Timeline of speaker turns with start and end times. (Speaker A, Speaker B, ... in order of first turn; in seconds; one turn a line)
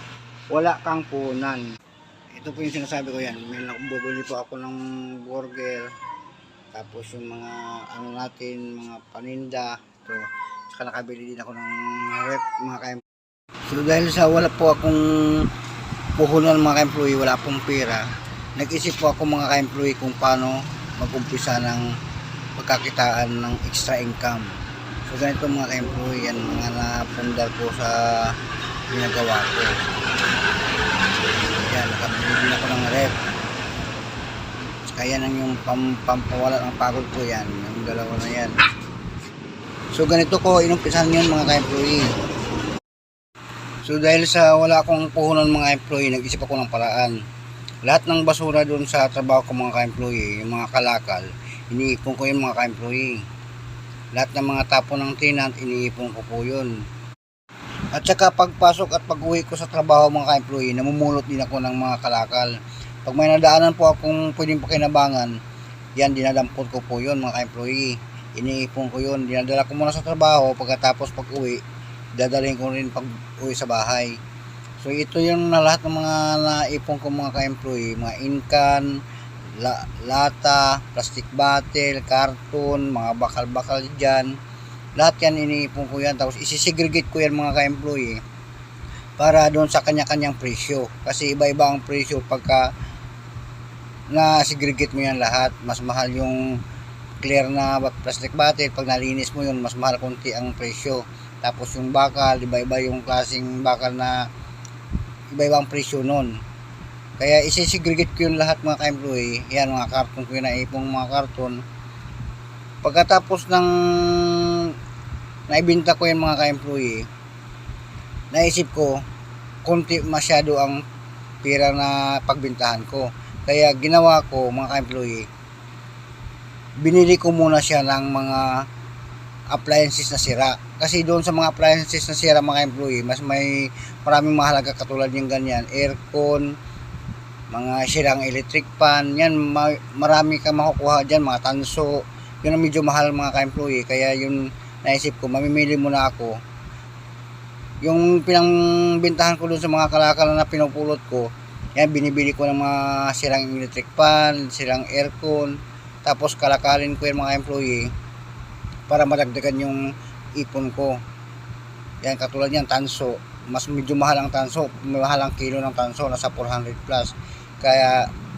Speaker A: 0.5-1.7
Speaker A: 2.3-5.9
Speaker A: 6.7-13.0
Speaker A: 13.7-15.5
Speaker A: 16.2-21.9
Speaker A: 22.6-24.6
Speaker A: 25.1-28.4
Speaker A: 28.9-29.8
Speaker A: 31.6-33.2
Speaker A: 34.9-38.5
Speaker A: 39.9-42.1
Speaker A: 43.8-47.2
Speaker A: 47.9-53.2
Speaker A: 54.1-56.8
Speaker A: 57.9-65.4
Speaker A: 66.0-71.6
Speaker A: 72.2-74.2
Speaker A: 74.8-79.0
Speaker A: 79.6-84.4
Speaker A: 85.0-88.2
Speaker A: 89.2-92.7
Speaker A: 94.1-96.6
Speaker A: 97.2-104.3
Speaker A: 105.3-106.4
Speaker A: 107.2-111.6
Speaker A: 112.8-114.8
Speaker A: 115.5-117.1
Speaker A: 118.3-119.0
Speaker A: 119.6-120.8
Speaker A: 121.4-125.3
Speaker A: 126.8-128.7
Speaker A: 129.5-136.5
Speaker A: 137.5-146.4
Speaker A: 147.8-157.9
Speaker A: 158.9-161.0
Speaker A: 162.0-168.1